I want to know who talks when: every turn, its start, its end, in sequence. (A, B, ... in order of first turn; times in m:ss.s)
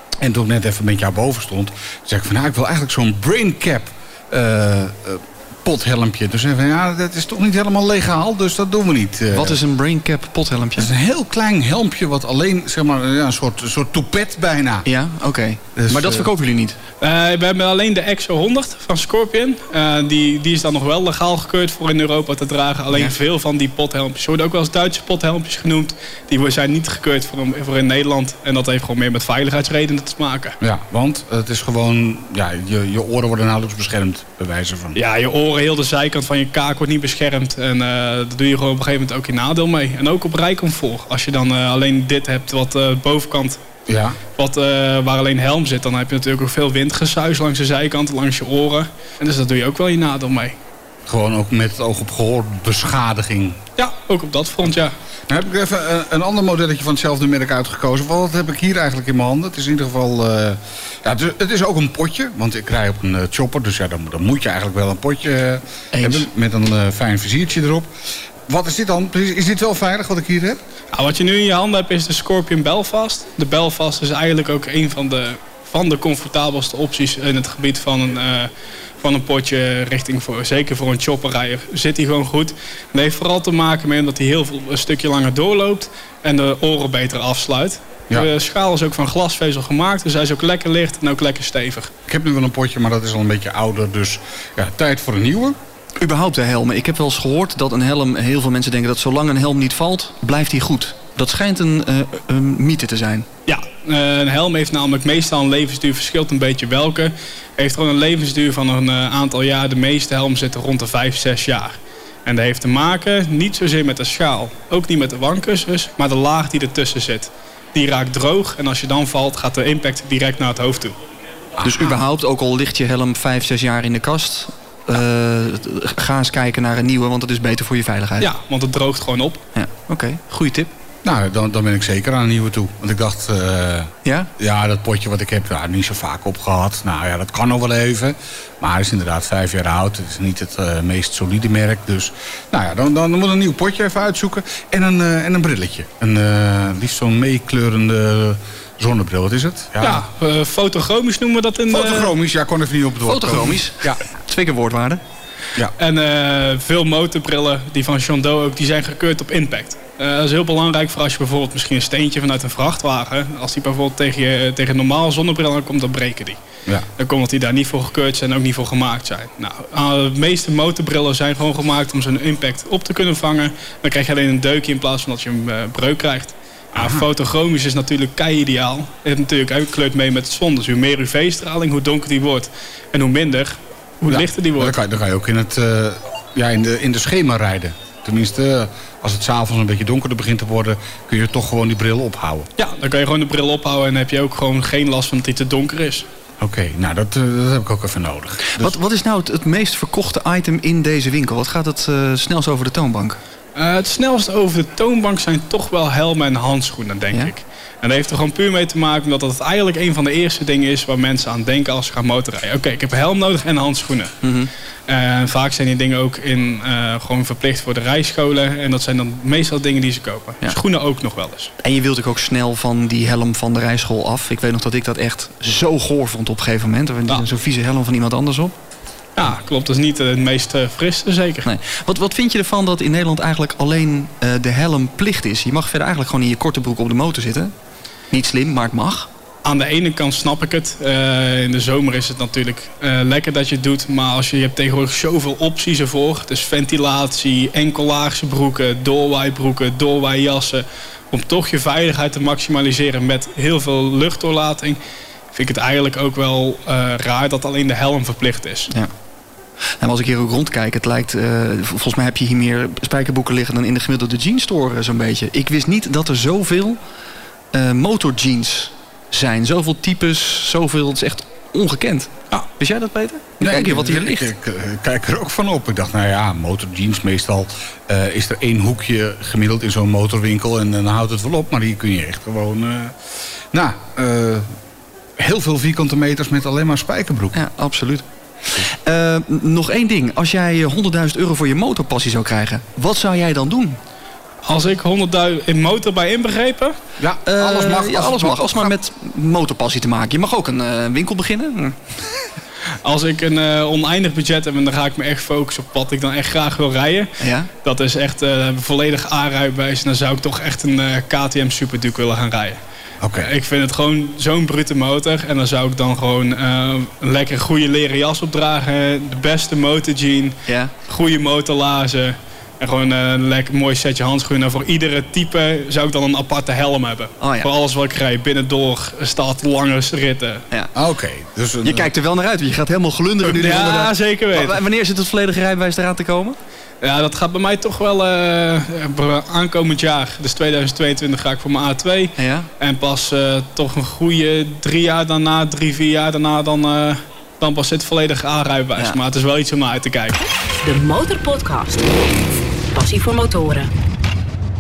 0:00.2-0:09.6 A
0:09.3-0:10.9 B
0:10.8-0:14.9 A
0:14.8-0:16.8 B
0:15.8-0:16.3 A
0:17.0-0:30.6 C
0:22.9-0:23.2 B
0:30.6-0:35.0 A
0:35.0-0:43.6 C
0:43.9-0:44.2 A
0:44.4-0:50.6 C
0:51.1-0:53.6 A
0:53.8-0:54.9 C
0:55.3-1:07.9 A
1:05.9-1:06.3 B
1:08.5-1:10.6 A
1:10.9-1:18.5 C
1:19.0-1:31.9 C
1:32.1-1:35.6 A
1:36.0-1:43.3 B
1:43.5-2:01.0 C
2:01.6-2:08.3 B
2:08.2-2:09.4 C
2:09.6-2:10.7 B
2:11.0-2:30.1 A
2:14.0-2:14.3 B
2:29.8-2:32.1 C
2:31.7-2:34.0 A
2:33.0-2:35.0 B
2:35.8-2:46.4 C
2:47.0-3:04.8 C
2:56.8-2:57.0 A
3:04.1-3:12.5 A
3:12.6-3:16.1 C
3:16.4-3:18.8 A
3:18.6-3:23.2 B
3:23.6-3:34.2 C
3:34.2-3:34.5 B
3:34.9-3:41.5 C
3:41.6-3:48.5 B
3:49.2-3:51.5 C
3:51.4-3:57.5 B
3:58.1-3:59.1 B
3:59.4-4:14.8 C
4:15.3-4:18.7 C
4:19.8-4:26.8 B
4:27.5-4:34.3 B
4:33.4-4:43.0 A
4:43.5-4:44.5 A
4:45.2-4:47.4 A
4:47.3-4:53.8 B
4:54.5-4:56.8 C
4:57.0-4:58.7 A
4:57.2-5:01.8 B
5:02.8-5:07.1 C
5:07.2-5:07.5 B
5:07.6-5:12.6 C
5:13.0-5:13.3 A
5:13.1-5:30.4 C
5:20.5-5:20.7 B
5:27.2-5:27.5 B
5:30.8-5:31.9 A
5:31.6-5:36.4 B
5:33.3-5:34.6 C
5:36.8-5:50.2 C
5:42.2-5:42.5 B
5:50.6-5:51.8 D
5:52.7-5:53.7 D